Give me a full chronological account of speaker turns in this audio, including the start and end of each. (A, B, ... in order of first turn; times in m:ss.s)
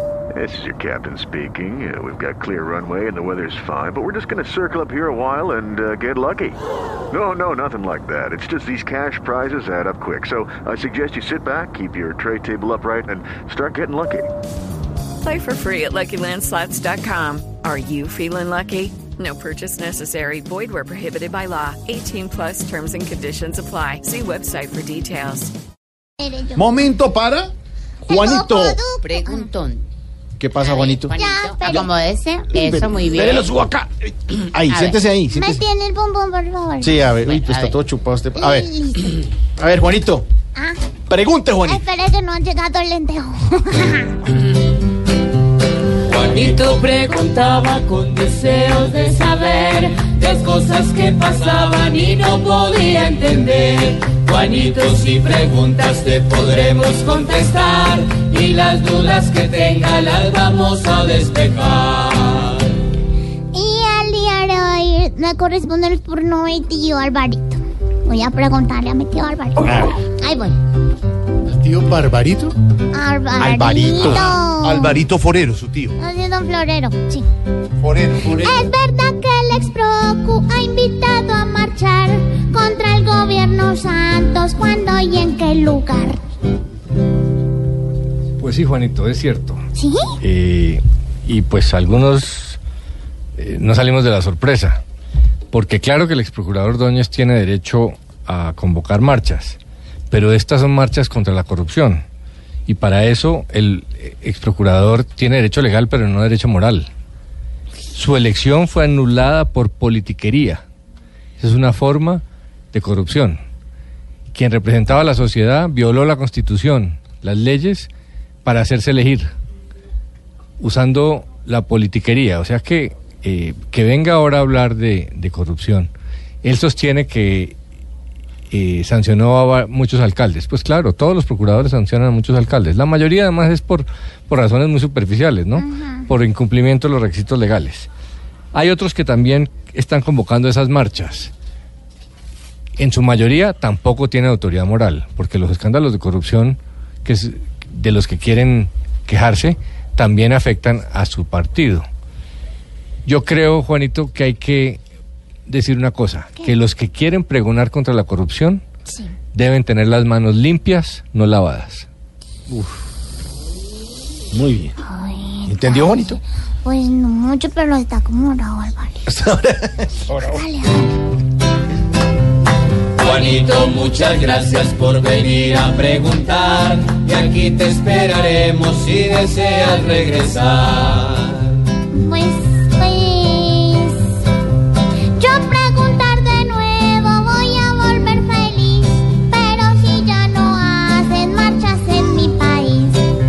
0:00.3-0:06.6 A
0:07.1-0:14.3 A
0:15.2-0:25.5 B
0:26.2-0:26.9 C
0:26.6-0:27.5 D
0:28.1-0:29.6 C
0:28.1-0:28.8 D
0:28.2-0:28.6 E
0:29.0-0:29.8 F
0:30.4-0:31.1 E
0:30.6-0:33.5 F
0:31.1-0:31.9 C
0:32.5-0:35.6 E
0:34.7-0:35.0 F
0:35.3-0:37.1 C
0:36.8-0:38.7 E
0:37.2-0:37.8 F
0:38.3-0:39.1 C
0:39.6-0:40.2 E
0:41.1-0:41.8 E
0:41.6-0:44.4 C
0:46.0-1:02.6 G
1:03.5-1:10.6 C
1:09.6-1:09.9 E
1:11.5-1:12.5 D
1:12.9-1:15.0 C
1:13.4-1:14.4 E
1:14.0-1:15.9 D
1:16.0-1:17.2 C
1:17.8-1:18.5 D
1:18.2-1:26.2 C
1:28.4-1:29.6 H
1:29.7-1:30.2 C
1:30.2-1:32.6 H
1:33.4-1:34.8 H
1:35.5-1:39.6 H
1:40.1-1:42.0 H
1:42.7-1:46.9 H
1:47.9-1:50.6 H
1:51.4-1:53.4 H
1:54.3-1:57.9 H
1:58.4-1:59.3 H
2:00.6-2:05.9 H
2:06.4-2:07.6 H
2:08.5-2:17.9 H
2:15.5-2:16.1 C
2:18.5-2:21.3 H
2:22.8-2:31.8 H
2:33.0-2:34.8 H
2:35.5-2:38.6 H
2:39.3-2:41.9 H
2:44.3-2:44.8 E
2:44.8-2:49.0 C
2:45.4-2:46.2 E
2:49.1-2:50.2 E
2:50.2-2:50.9 C
2:53.0-3:01.5 G
3:01.9-3:04.1 C
3:05.2-3:13.0 C